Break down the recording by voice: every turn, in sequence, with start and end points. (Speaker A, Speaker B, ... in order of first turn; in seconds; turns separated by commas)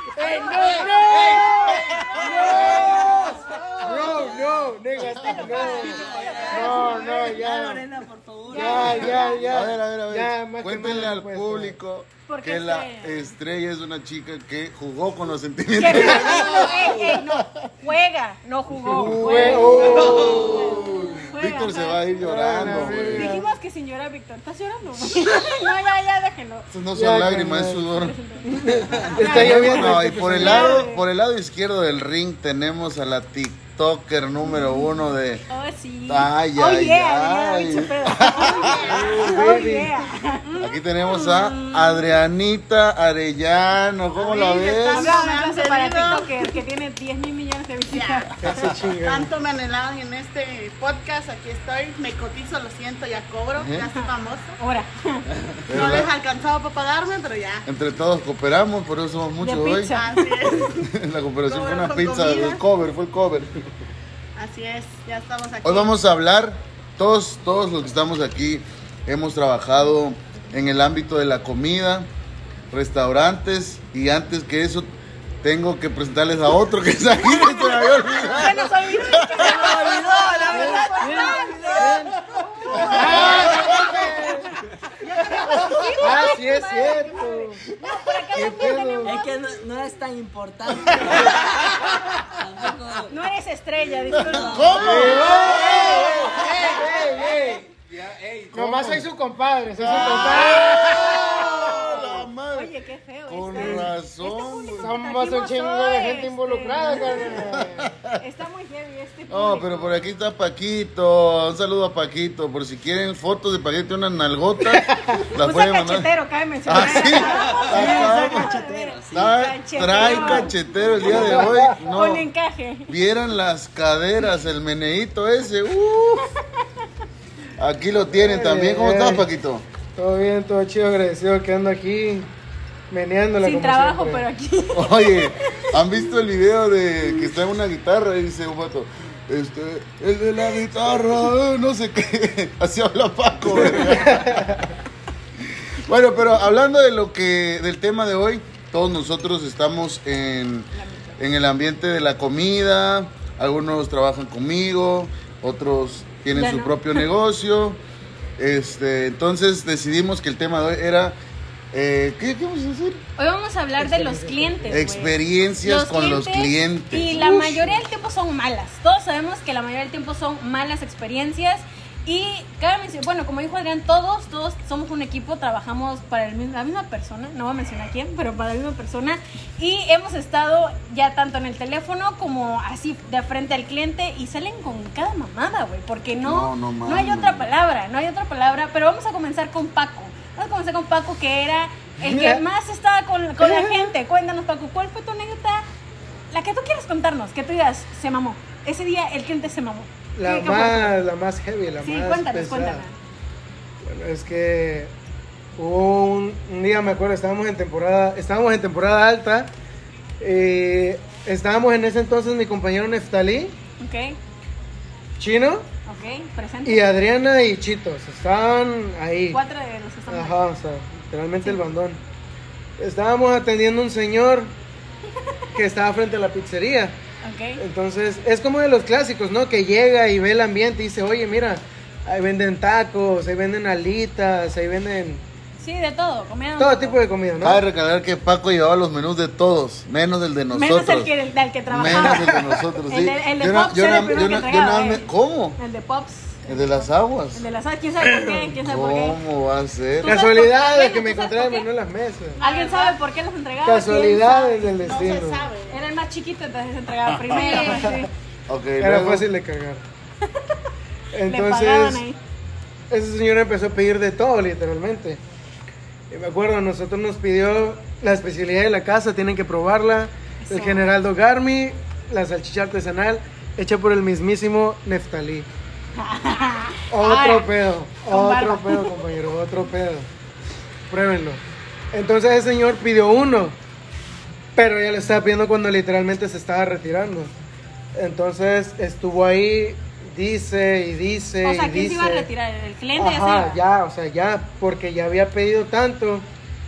Speaker A: 0.1-3.2, Speaker B: 0.3-0.8, Speaker C: 0.6-4.7, Speaker B: 2.2-2.4, Speaker D: 2.8-3.1, Speaker A: 3.8-7.8, Speaker B: 5.1-7.0, Speaker C: 5.3-9.5, Speaker B: 8.5-9.5, Speaker A: 8.5-11.8, Speaker D: 9.5-17.7, Speaker B: 12.3-13.3, Speaker B: 15.8-26.7, Speaker D: 18.8-23.4, Speaker A: 18.9-20.8, Speaker C: 20.5-20.9, Speaker A: 22.2-23.5, Speaker D: 26.7-28.2, Speaker A: 26.9-27.8, Speaker B: 28.0-31.0, Speaker A: 28.5-30.8, Speaker D: 29.2-35.4, Speaker B: 35.5-42.1, Speaker D: 36.1-39.3, Speaker A: 38.9-40.0, Speaker D: 40.6-45.1, Speaker E: 44.2-46.6, Speaker B: 44.9-48.3, Speaker E: 47.9-48.3, Speaker A: 48.4-49.3, Speaker E: 49.0-54.5, Speaker D: 53.6-53.8, Speaker B: 54.6-55.3, Speaker D: 55.7-56.1, Speaker E: 55.7-57.7, Speaker D: 57.6-60.0, Speaker B: 59.4-60.4, Speaker E: 59.9-60.9, Speaker D: 60.8-63.6, Speaker E: 61.5-62.6, Speaker E: 64.4-65.9, Speaker D: 65.6-72.1, Speaker D: 72.7-74.9, Speaker D: 75.4-79.6, Speaker B: 77.2-89.3, Speaker C: 79.2-82.1, Speaker A: 80.5-80.9, Speaker A: 81.8-82.1, Speaker D: 82.7-84.0, Speaker A: 82.7-84.5, Speaker C: 83.1-83.4, Speaker D: 85.4-85.8, Speaker A: 86.0-87.6, Speaker A: 88.3-89.2, Speaker C: 89.0-93.1, Speaker B: 93.1-96.6, Speaker C: 94.1-95.2, Speaker D: 94.1-96.6, Speaker A: 94.7-97.6, Speaker F: 96.3-98.9, Speaker D: 98.5-99.1, Speaker A: 98.5-101.5, Speaker D: 99.8-102.7, Speaker B: 99.9-102.0, Speaker B: 102.5-107.6, Speaker D: 103.3-104.9, Speaker A: 103.5-103.8, Speaker A: 104.8-107.9, Speaker D: 107.2-108.2, Speaker B: 108.2-110.1, Speaker D: 109.3-116.1, Speaker B: 115.4-122.9, Speaker D: 116.6-118.6, Speaker C: 116.7-120.5, Speaker D: 119.1-122.3, Speaker A: 121.1-121.8, Speaker D: 122.9-126.3, Speaker D: 127.6-129.6, Speaker A: 128.1-129.3, Speaker A: 129.9-132.3, Speaker A: 132.9-134.2, Speaker B: 133.4-135.8, Speaker D: 134.7-144.7, Speaker D: 145.8-157.8, Speaker B: 150.7-151.2, Speaker B: 156.3-157.1, Speaker D: 158.4-161.2, Speaker D: 161.7-163.0, Speaker B: 163.2-195.7, Speaker A: 163.8-164.8, Speaker D: 164.7-167.2, Speaker A: 167.1-167.8, Speaker D: 186.2-187.5, Speaker A: 192.0-192.4, Speaker A: 193.4-193.9, Speaker B: 196.3-201.0, Speaker A: 200.2-202.8, Speaker B: 201.8-202.9, Speaker A: 203.8-204.9, Speaker A: 205.6-209.5, Speaker A: 210.2-213.6, Speaker B: 213.8-214.2, Speaker A: 215.2-215.7, Speaker B: 215.9-216.9, Speaker A: 216.6-219.4, Speaker B: 219.3-220.4, Speaker A: 220.1-222.0, Speaker A: 222.8-224.5, Speaker A: 225.6-227.0, Speaker B: 227.2-227.6, Speaker A: 227.6-235.2, Speaker B: 235.6-237.0, Speaker A: 236.6-237.6, Speaker D: 237.4-241.1, Speaker B: 240.5-242.3, Speaker D: 241.7-245.6, Speaker A: 241.9-242.7, Speaker B: 242.9-246.6, Speaker D: 246.4-247.4, Speaker B: 247.3-249.2, Speaker D: 248.6-250.1, Speaker B: 250.0-251.7, Speaker A: 250.1-252.4, Speaker E: 252.4-253.0, Speaker B: 252.4-254.8, Speaker A: 253.6-255.5, Speaker E: 254.8-255.8, Speaker B: 255.7-258.1, Speaker D: 257.1-257.6, Speaker A: 257.4-258.1, Speaker D: 258.5-259.3, Speaker A: 258.8-259.9, Speaker B: 260.3-260.5, Speaker A: 261.1-262.1, Speaker B: 261.3-262.2, Speaker A: 262.9-265.2, Speaker A: 266.1-275.5, Speaker B: 270.4-270.9, Speaker B: 275.9-277.5, Speaker A: 276.9-280.1, Speaker B: 278.1-279.0, Speaker A: 280.9-283.6, Speaker A: 284.6-287.3, Speaker A: 287.9-292.3, Speaker B: 291.4-293.6, Speaker A: 293.0-296.2